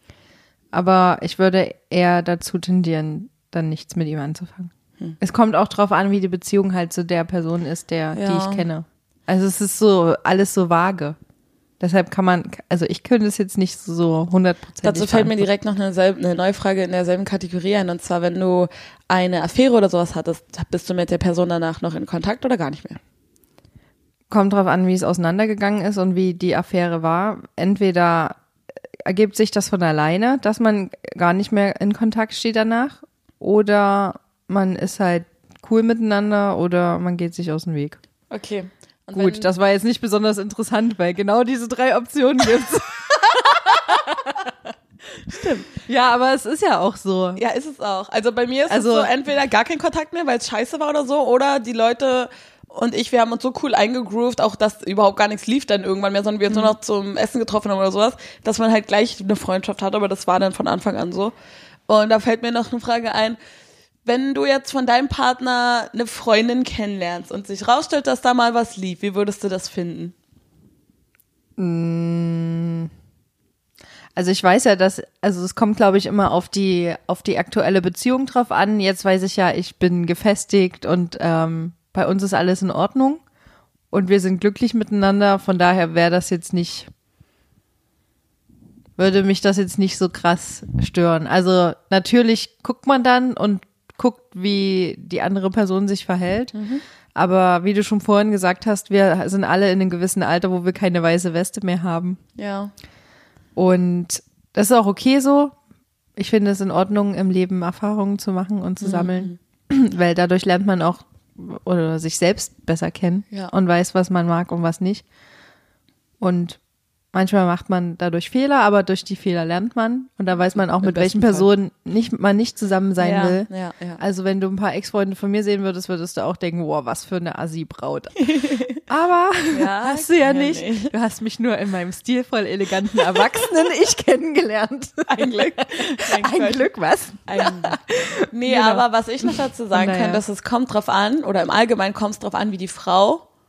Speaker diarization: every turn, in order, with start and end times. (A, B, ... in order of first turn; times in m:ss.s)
0:00.7-0:11.2 A
0:08.1-0:08.6 B
0:11.8-0:15.4 A
0:14.8-0:23.0 B
0:24.3-0:28.4 A
0:29.0-0:38.0 A
0:38.3-0:39.5 B
0:39.2-0:44.5 A
0:45.3-0:45.7 B
0:45.8-0:47.4 A
0:47.4-1:01.3 B
0:48.7-0:49.1 A
1:01.9-1:03.4 B
1:04.0-1:10.1 B
1:11.6-1:12.9 A
1:14.2-1:23.2 A
1:23.9-1:26.9 A
1:29.0-1:36.6 A
1:36.5-1:36.8 B
1:37.1-1:42.2 A
1:42.4-1:42.7 B
1:43.6-1:45.5 A
1:46.2-1:55.0 A
1:48.8-1:49.4 B
1:56.2-1:56.6 A
1:57.1-2:03.5 A
2:00.8-2:01.5 B
2:03.0-2:04.0 B
2:04.0-2:08.2 A
2:08.2-2:08.8 B
2:08.9-2:20.2 A
2:09.5-2:10.9 B
2:15.1-2:16.7 B
2:17.3-2:17.8 B
2:18.3-2:23.2 B